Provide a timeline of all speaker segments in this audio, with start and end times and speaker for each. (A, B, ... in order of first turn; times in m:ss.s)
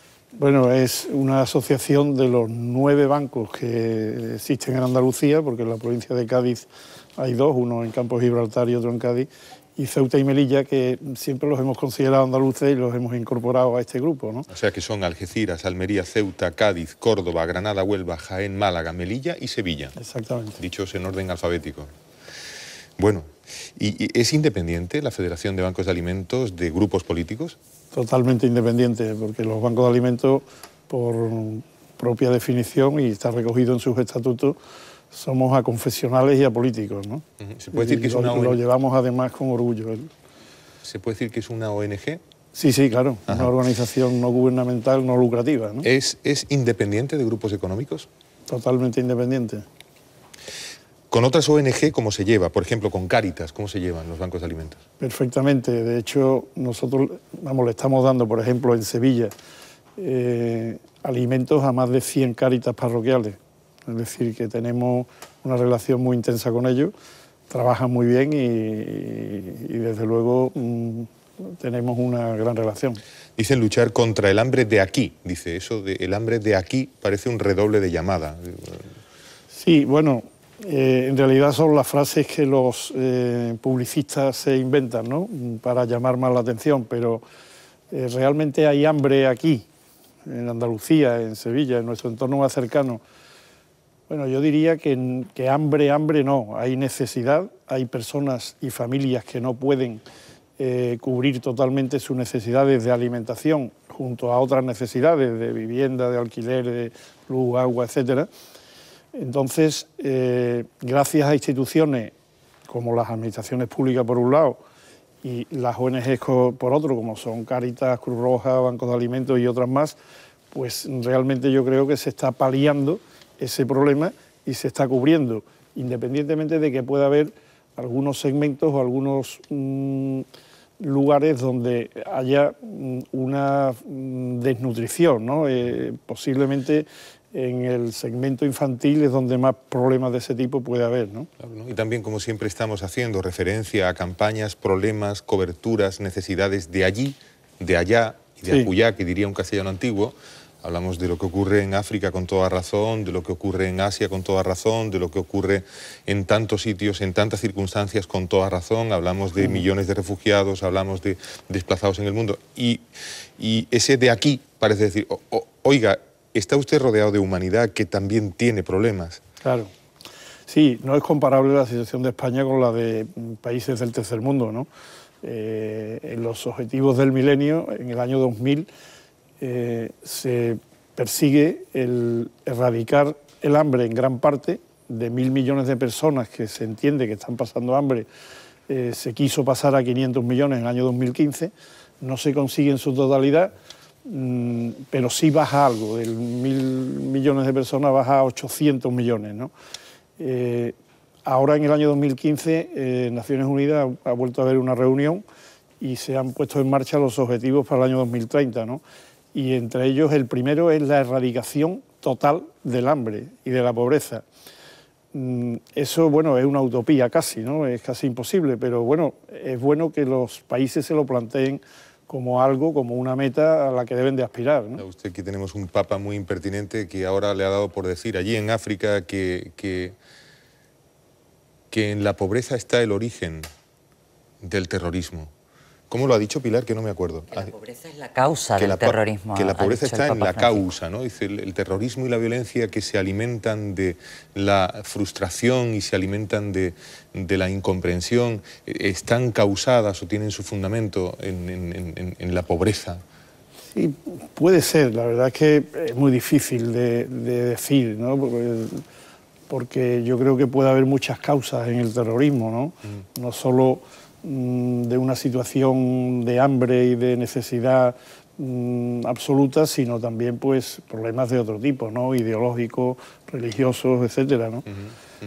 0:00.4-0:14.5 A
0:14.5-0:19.9 B
0:20.0-0:20.6 A
0:20.6-0:21.9 B
0:23.0-0:27.6 B
0:27.9-0:34.6 A
0:35.1-0:40.1 A
0:37.4-0:38.6 B
0:40.8-0:42.2 B
0:42.6-0:45.8 A
0:45.8-0:48.1 B
0:48.5-0:49.6 A
0:51.1-0:54.8 B
0:55.0-0:59.3 A
1:00.0-1:06.9 A
1:07.5-1:13.0 A
1:13.4-1:18.9 B
1:19.5-1:27.2 A
1:27.9-1:29.6 A
1:30.2-1:33.0 A
1:34.1-1:40.0 A
1:40.6-1:48.3 A
1:49.2-1:52.1 A
1:52.7-1:54.6 A
1:55.2-2:00.0 A
2:00.5-2:10.2 A
2:10.8-2:21.3 A
2:21.4-2:42.8 B
2:43.4-2:49.2 B
2:49.4-2:49.7 A
2:50.5-2:54.7 A
2:55.2-2:58.7 A
2:59.4-3:08.1 A
3:08.7-3:13.5 A
3:14.1-3:19.5 A
3:20.2-3:25.2 A
3:25.8-3:28.8 A
3:29.3-3:34.2 A
3:35.1-3:44.8 A
3:44.8-3:49.9 B
3:51.7-3:53.5 B
3:54.4-3:55.3 B
3:55.9-3:57.5 B
3:57.3-4:00.6 C
3:58.6-4:13.0 B
4:13.7-4:18.8 A
4:19.5-4:34.6 A